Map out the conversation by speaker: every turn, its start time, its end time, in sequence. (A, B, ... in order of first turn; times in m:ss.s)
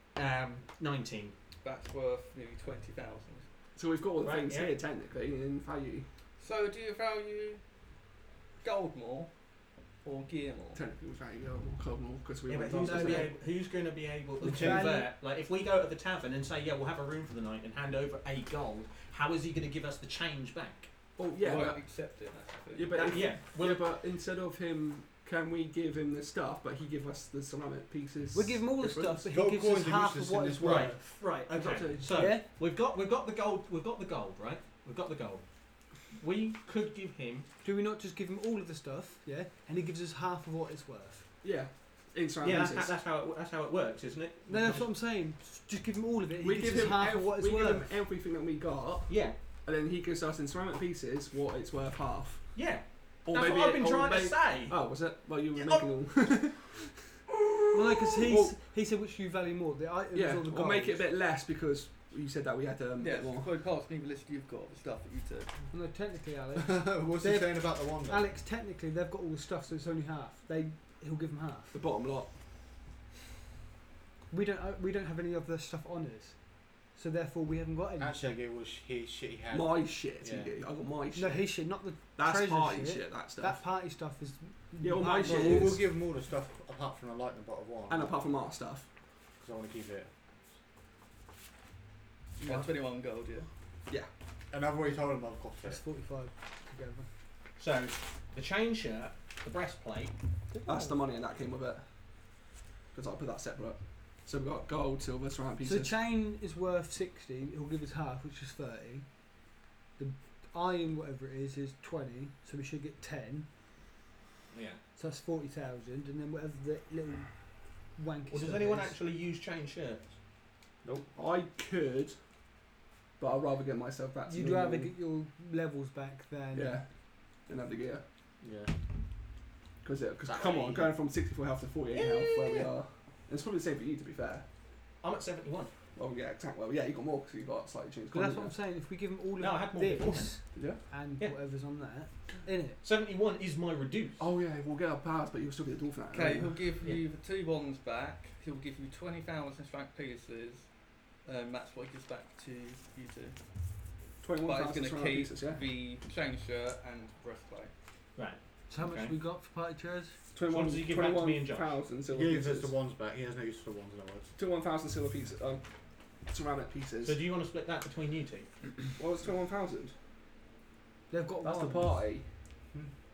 0:00.2-0:01.4 A
0:01.6-0:03.5 B
0:03.8-0:06.1 C
0:04.2-0:04.7 A
0:06.4-0:07.6 B
0:08.6-0:09.3 B
0:10.0-0:10.8 B
0:10.7-0:13.4 C
0:12.5-0:20.9 A
0:12.8-0:13.3 D
0:14.4-0:14.9 E
0:14.4-0:15.1 D
0:21.2-0:21.8 C
0:21.4-0:22.9 B
0:22.7-0:29.2 C
0:22.9-0:23.8 A
0:28.3-0:31.2 D
0:29.2-0:31.0 E
0:30.6-0:35.4 A
0:31.5-0:32.3 C
0:32.1-0:32.4 D
0:36.1-0:37.5 A
0:37.6-0:41.3 D
0:41.4-0:43.0 C
0:42.4-0:44.9 A
0:44.5-0:48.0 D
0:46.4-0:52.7 C
0:49.1-0:49.4 A
0:52.6-0:54.8 A
0:53.2-0:58.6 C
0:55.6-0:55.9 A
0:57.7-1:01.1 D
1:00.1-1:03.5 C
1:03.0-1:05.6 B
1:05.7-1:11.8 D
1:06.6-1:08.3 E
1:11.7-1:12.4 C
1:14.3-1:18.3 D
1:18.0-1:20.5 E
1:19.5-1:21.6 C
1:21.2-1:25.8 D
1:22.2-1:23.6 C
1:24.8-1:25.8 C
1:25.2-1:28.2 E
1:27.9-1:28.9 C
1:29.4-1:30.1 E
1:32.4-1:33.5 B
1:34.5-1:35.8 E
1:35.6-1:37.1 D
1:37.6-1:40.2 A
1:40.6-1:41.8 C
1:42.9-1:46.0 C
1:45.6-1:49.1 D
1:50.0-1:53.5 D
1:54.5-1:54.8 A
1:55.0-1:57.4 D
1:58.0-1:59.0 D
1:58.3-2:00.0 A
2:00.8-2:01.1 E
2:01.2-2:02.2 C
2:03.2-2:04.9 C
2:04.3-2:06.8 D
2:06.5-2:08.0 C
2:08.4-2:08.7 E
2:09.8-2:14.4 C
2:10.3-2:10.9 E
2:11.9-2:12.7 A
2:15.0-2:15.7 A
2:16.0-2:18.6 C
2:18.1-2:22.8 D
2:19.4-2:20.5 A
2:20.5-2:20.8 C
2:22.8-2:24.2 A
2:24.2-2:26.6 C
2:26.1-2:30.7 B
2:31.2-2:33.4 B
2:34.2-2:35.6 C
2:34.4-2:37.7 B
2:38.2-2:39.2 A
2:38.7-2:40.2 D
2:40.3-2:42.7 C
2:40.5-2:41.8 A
2:42.1-2:44.3 E
2:44.4-2:45.6 C
2:46.3-2:47.2 C
2:47.0-2:48.5 A
2:49.0-2:49.9 C
2:51.1-2:52.0 D
2:51.4-2:52.3 C